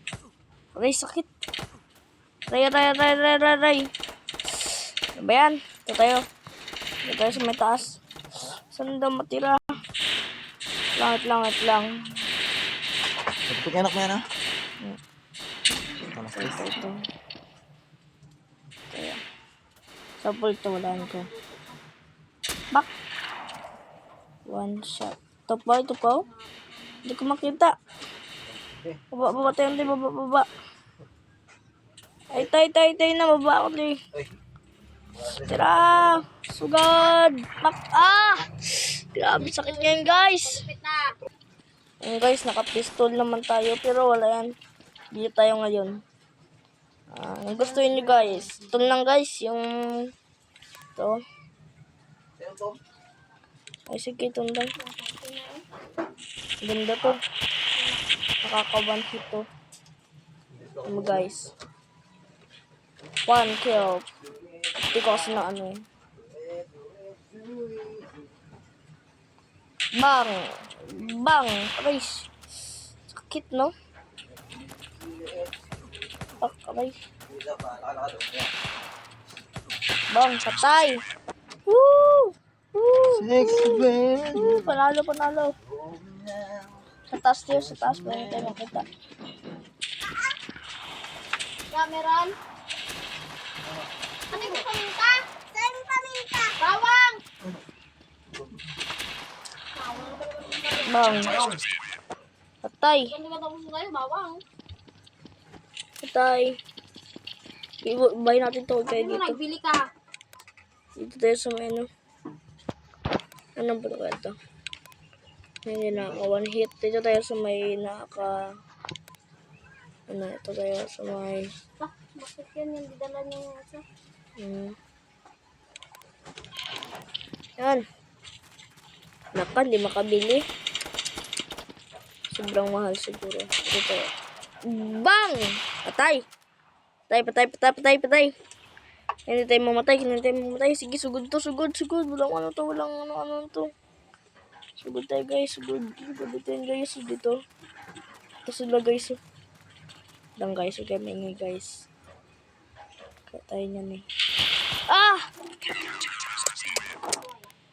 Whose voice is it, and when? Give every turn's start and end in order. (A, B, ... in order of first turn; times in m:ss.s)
0:00.8-0:01.3 A
0:02.5-0:03.9 A
0:04.5-0:06.2 A
0:07.0-0:08.0 A
0:08.7-0:09.6 A
0:11.0-0:11.9 A
0:13.5-0:14.2 B
0:16.1-0:16.6 B
0:16.3-0:17.0 A
0:18.9-0:19.2 A
0:20.2-0:21.3 A
0:20.9-0:21.8 C
0:24.4-0:26.2 A
0:26.3-0:27.0 C
0:27.0-0:27.7 A
0:29.1-0:30.5 A
0:32.3-0:34.0 A
0:35.2-0:40.6 A
0:39.4-0:41.1 C
0:42.0-0:44.5 A
0:45.1-0:46.0 A
0:47.1-0:50.1 A
0:51.0-0:51.2 A
0:52.4-0:52.8 B
0:53.9-0:54.7 A
0:54.8-0:55.6 C
0:56.6-0:57.2 A
0:57.7-0:58.0 C
0:58.4-0:59.4 A
1:00.8-1:01.5 A
1:03.2-1:04.0 A
1:04.8-1:05.8 A
1:06.3-1:08.2 B
1:10.0-1:12.3 A
1:13.1-1:13.7 A
1:14.7-1:15.5 B
1:16.4-1:17.0 A
1:17.3-1:18.5 B
1:20.1-1:21.0 A
1:21.7-1:25.5 A
1:23.1-1:24.6 B
1:25.9-1:26.6 B
1:27.1-1:28.8 A
1:27.8-1:28.3 B
1:31.7-1:32.4 C
1:34.3-1:37.2 C
1:39.8-1:41.5 C
1:40.8-1:41.4 A
1:42.6-1:43.2 A
1:43.1-1:44.4 C
1:46.0-1:46.6 A
1:47.8-1:49.4 A
1:48.8-1:49.9 C
1:51.0-1:51.9 A
1:53.6-1:54.3 A
1:55.6-1:58.5 A
2:00.1-2:01.5 A
2:01.8-2:03.8 C
2:04.4-2:04.7 A
2:07.6-2:07.8 A
2:09.3-2:10.4 A
2:12.3-2:14.1 A
2:14.7-2:16.2 A
2:17.1-2:18.3 A
2:19.3-2:23.7 A
2:24.8-2:27.4 A
2:28.4-2:29.2 A
2:30.4-2:31.8 A
2:33.3-2:34.0 A
2:34.9-2:35.3 A
2:36.0-2:36.6 A
2:37.0-2:37.5 C